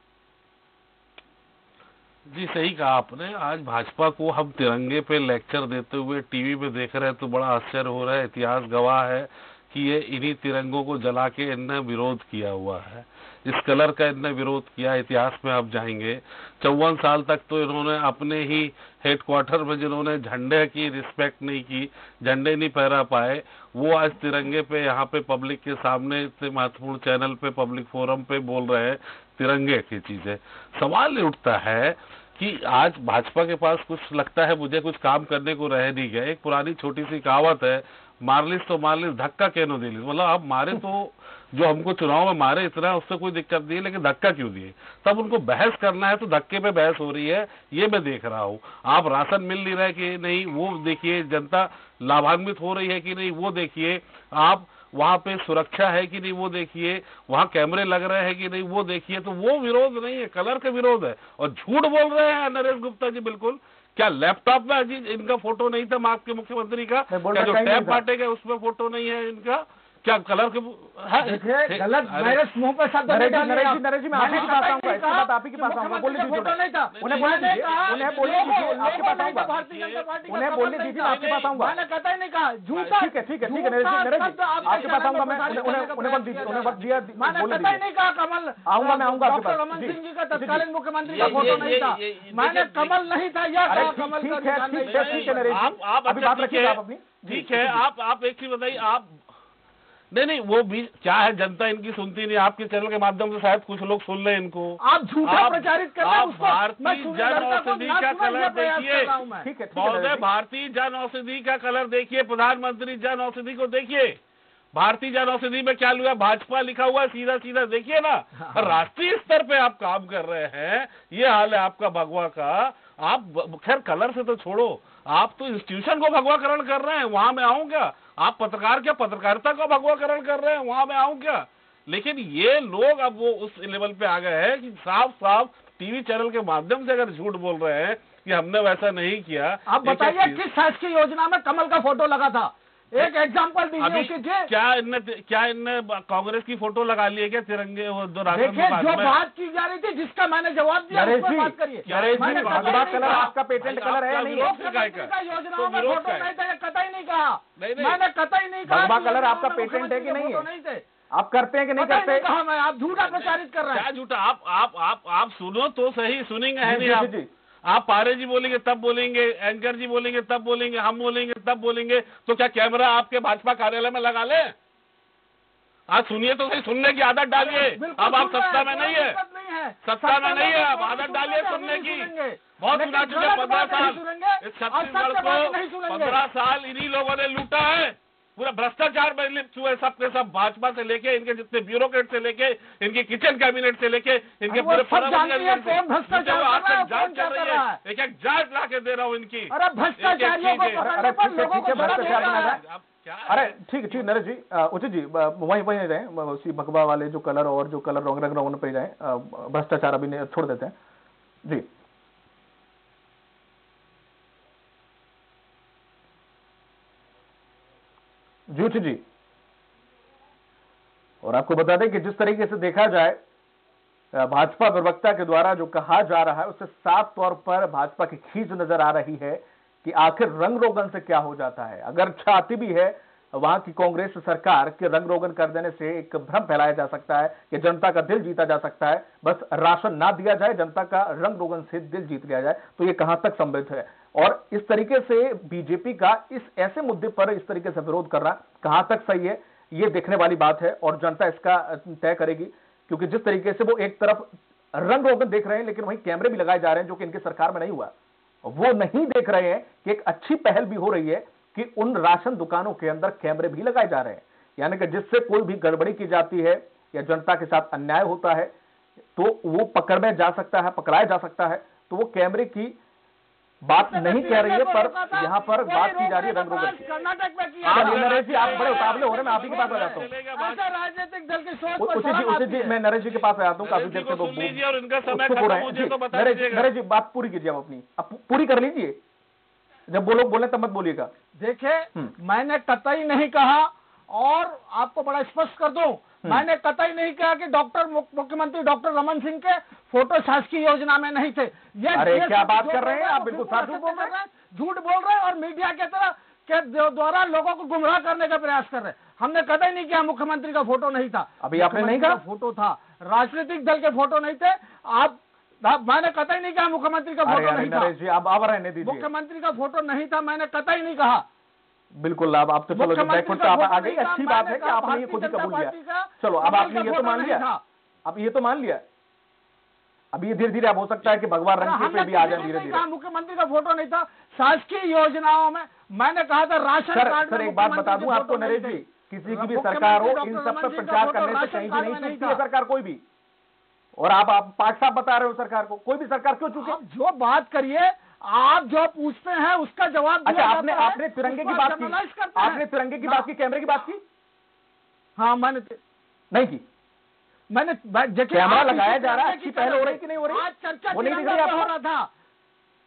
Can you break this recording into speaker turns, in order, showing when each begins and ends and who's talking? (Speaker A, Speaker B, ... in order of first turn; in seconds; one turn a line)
Speaker A: 2.3-72.5
Speaker B: 67.1-68.0
Speaker C: 71.2-95.6
Speaker B: 73.1-79.5
Speaker A: 76.9-80.0
Speaker B: 80.3-81.7
Speaker A: 81.0-81.6
Speaker B: 82.9-87.8
Speaker A: 84.6-87.0
Speaker B: 88.6-91.8
Speaker A: 91.1-93.0
Speaker B: 93.7-97.8
Speaker A: 94.8-99.2
Speaker A: 100.1-109.2
Speaker C: 104.8-109.5
Speaker B: 109.4-110.2
Speaker A: 109.7-114.2
Speaker A: 114.7-140.4
Speaker C: 118.3-118.8
Speaker C: 139.7-144.5
Speaker A: 143.8-149.1
Speaker C: 148.3-153.3
Speaker B: 150.9-154.5
Speaker A: 151.8-156.3
Speaker C: 154.3-160.8
Speaker A: 157.6-158.0
Speaker B: 158.7-160.5
Speaker B: 161.1-162.3
Speaker C: 161.8-163.8
Speaker A: 162.9-167.1
Speaker B: 166.6-167.3
Speaker A: 167.6-174.5
Speaker A: 175.9-179.2
Speaker C: 177.3-186.2
Speaker A: 179.8-200.8
Speaker C: 194.5-197.8
Speaker C: 199.5-202.6
Speaker B: 200.8-202.6
Speaker A: 201.7-204.1
Speaker B: 203.3-210.8
Speaker B: 218.5-219.0
Speaker B: 221.2-223.2
Speaker B: 224.1-257.9
Speaker B: 258.4-268.5
Speaker B: 269.1-272.8
Speaker B: 273.6-276.8
Speaker C: 273.8-282.7
Speaker A: 277.6-280.7
Speaker B: 277.6-280.1
Speaker B: 281.8-289.0
Speaker A: 283.1-286.7
Speaker B: 289.9-291.1
Speaker C: 291.4-317.9
Speaker B: 301.9-304.1
Speaker B: 311.4-312.2
Speaker B: 317.2-319.1
Speaker C: 318.8-321.2
Speaker B: 322.0-327.4
Speaker C: 322.7-327.6
Speaker B: 328.1-328.8
Speaker B: 330.1-332.8
Speaker C: 331.6-342.4
Speaker B: 336.9-343.0
Speaker B: 343.9-346.8
Speaker C: 346.6-353.3
Speaker B: 350.2-354.0
Speaker C: 355.2-355.8
Speaker B: 356.3-356.6
Speaker C: 357.5-362.1
Speaker B: 358.3-361.7